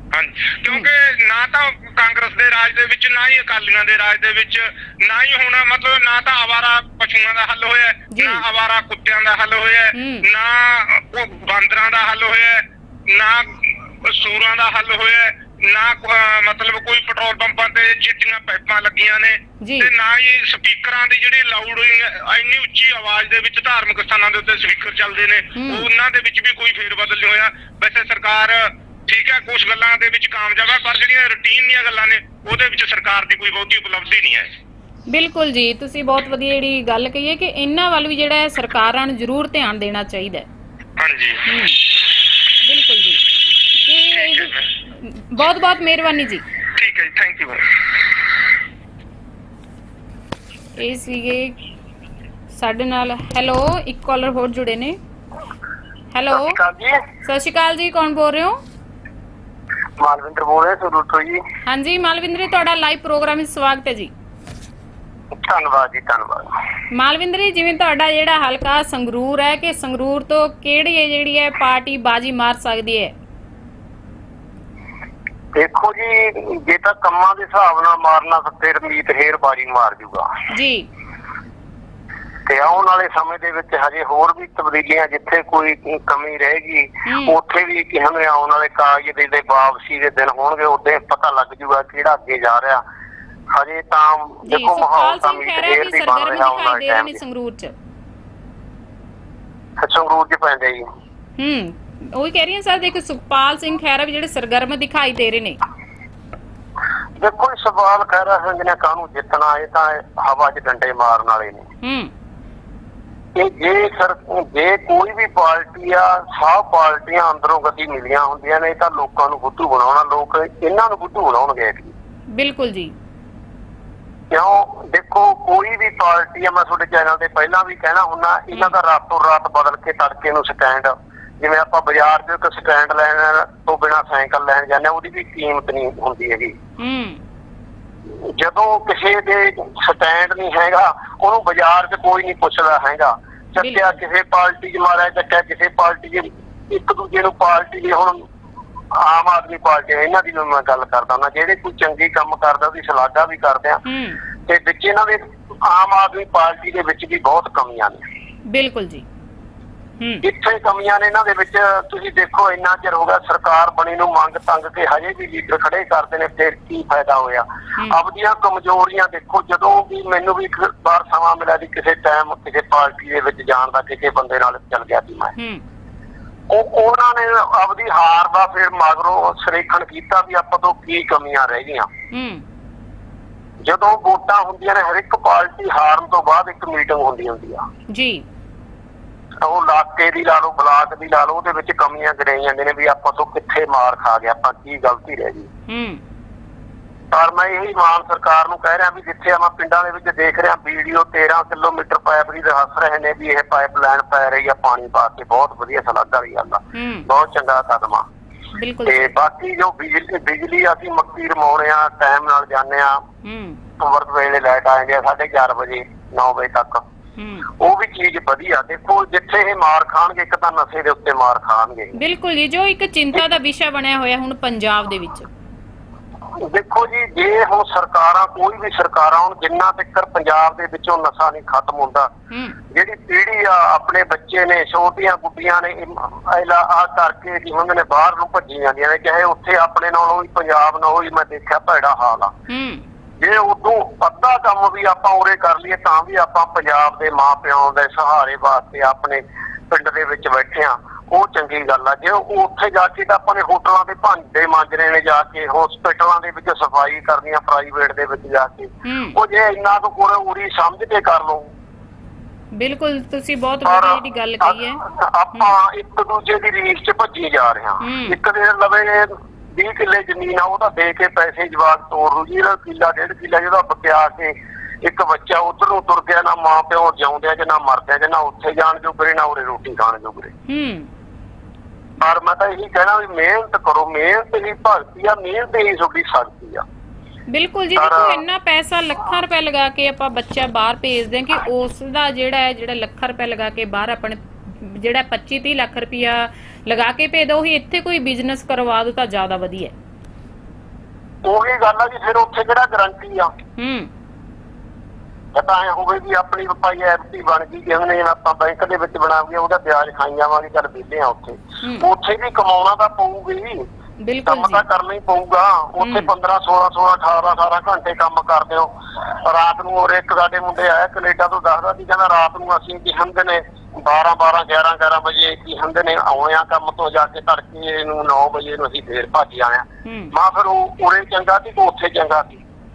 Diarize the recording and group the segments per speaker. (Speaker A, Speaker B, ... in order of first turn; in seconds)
Speaker A: 0.1-34.5, 41.0-41.4, 44.1-44.7, 46.8-47.7
Speaker B: 8.1-8.4, 9.9-10.2, 19.6-19.9, 25.6-25.9, 35.1-40.5, 41.5-41.8, 42.6-43.2, 43.8-46.4, 50.8-51.5, 52.5-55.0, 56.1-56.6, 57.2-58.6, 61.7-64.1, 66.9-73.1, 80.5-80.8, 87.0-87.4, 94.5-97.7, 101.4-105.6, 111.8-112.1, 122.3-122.9, 136.8-137.2, 143.6-143.9, 153.8-154.2, 158.5-159.0, 175.4-175.6, 182.1-182.4, 187.9-188.2, 195.7-196.0, 206.7-207.1, 208.6-209.1, 213.2-213.6, 217.2-217.5, 221.9-225.3, 232.3-232.6, 242.5-242.8, 258.8-259.2, 262.6-264.8, 267.8-268.2, 280.5-280.9, 287.3-299.7, 303.6-303.9, 311.6-311.9, 314.0-314.6, 315.8-316.1, 329.8-330.1
Speaker C: 56.3-57.0, 60.0-61.4, 65.4-66.5, 75.5-80.3, 82.5-92.8, 93.5-97.2, 99.8-100.8, 107.2-111.7, 113.3-121.9, 124.3-136.6, 138.2-148.2, 148.9-153.8, 154.4-158.0, 160.2-175.3, 176.5-181.9, 183.6-187.6, 189.4-195.5, 197.1-208.1, 208.8-213.0, 213.8-216.8, 217.6-221.9, 226.4-232.1, 232.7-242.3, 243.2-261.5, 263.6-280.3, 282.0-286.6, 287.8-288.2, 301.2-303.3, 305.3-313.6, 314.2-318.7, 319.2-332.4